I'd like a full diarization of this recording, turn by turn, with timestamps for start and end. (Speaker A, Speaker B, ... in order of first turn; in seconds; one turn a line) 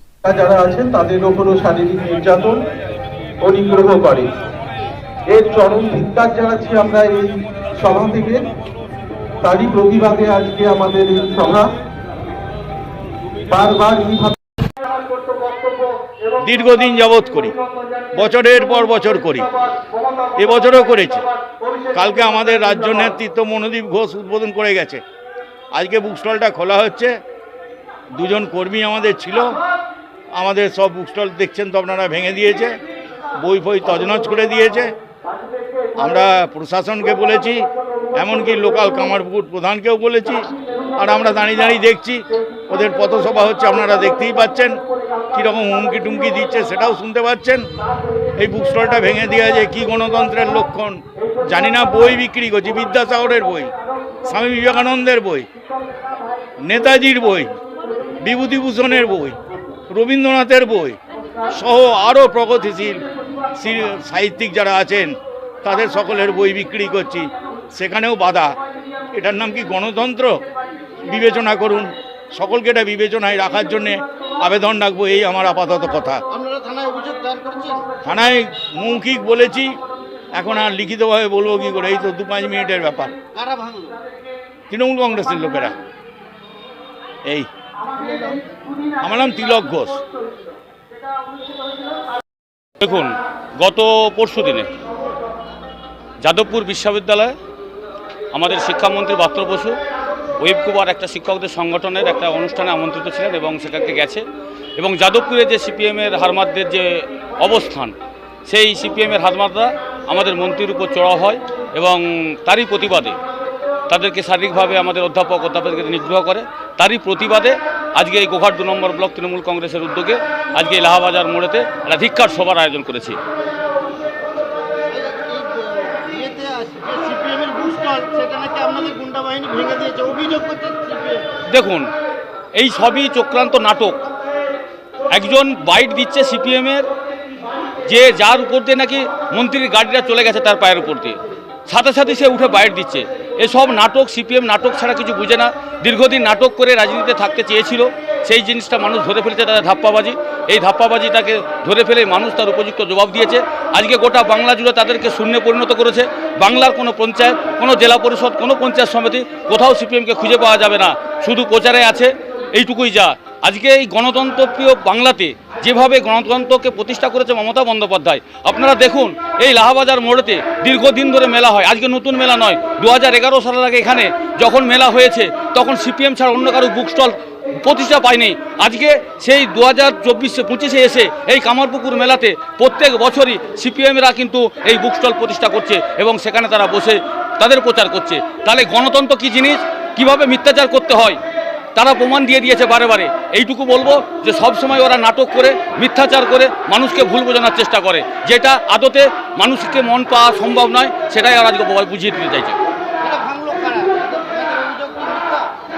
Speaker A: 0.2-2.6
Speaker A: 3.4-4.3
Speaker A: 5.3-8.4
Speaker A: 9.4-11.7
Speaker A: 13.5-14.4
Speaker B: 16.4-17.5
Speaker B: 18.1-19.5
Speaker B: 20.4-21.2
Speaker B: 21.9-25.0
Speaker B: 25.8-27.1
Speaker B: 28.2-29.5
Speaker B: 30.4-32.7
Speaker B: 33.4-34.9
Speaker B: 36.0-40.5
Speaker B: 41.0-44.8
Speaker B: 45.3-47.6
Speaker B: 48.4-53.7
Speaker B: 54.3-55.5
Speaker B: 56.6-57.5
Speaker B: 58.2-59.4
Speaker B: 59.9-61.0
Speaker B: 61.5-63.0
Speaker B: 63.6-68.5
Speaker B: 69.1-70.4
Speaker B: 71.0-76.2
Speaker C: 76.3-77.8
Speaker B: 78.0-79.7
Speaker B: 80.3-83.1
Speaker C: 83.3-84.0
Speaker B: 84.7-85.7
Speaker B: 89.0-90.0
Speaker D: 92.8-94.7
Speaker D: 96.2-97.3
Speaker D: 98.3-99.8
Speaker D: 100.4-104.2
Speaker D: 104.8-107.9
Speaker D: 108.5-113.2
Speaker D: 113.9-123.2
Speaker C: 124.8-131.3
Speaker D: 131.5-131.9
Speaker D: 132.6-134.0
Speaker D: 135.1-136.9
Speaker D: 137.9-191.2
Speaker D: 191.8-202.6
Speaker C: 203.0-205.5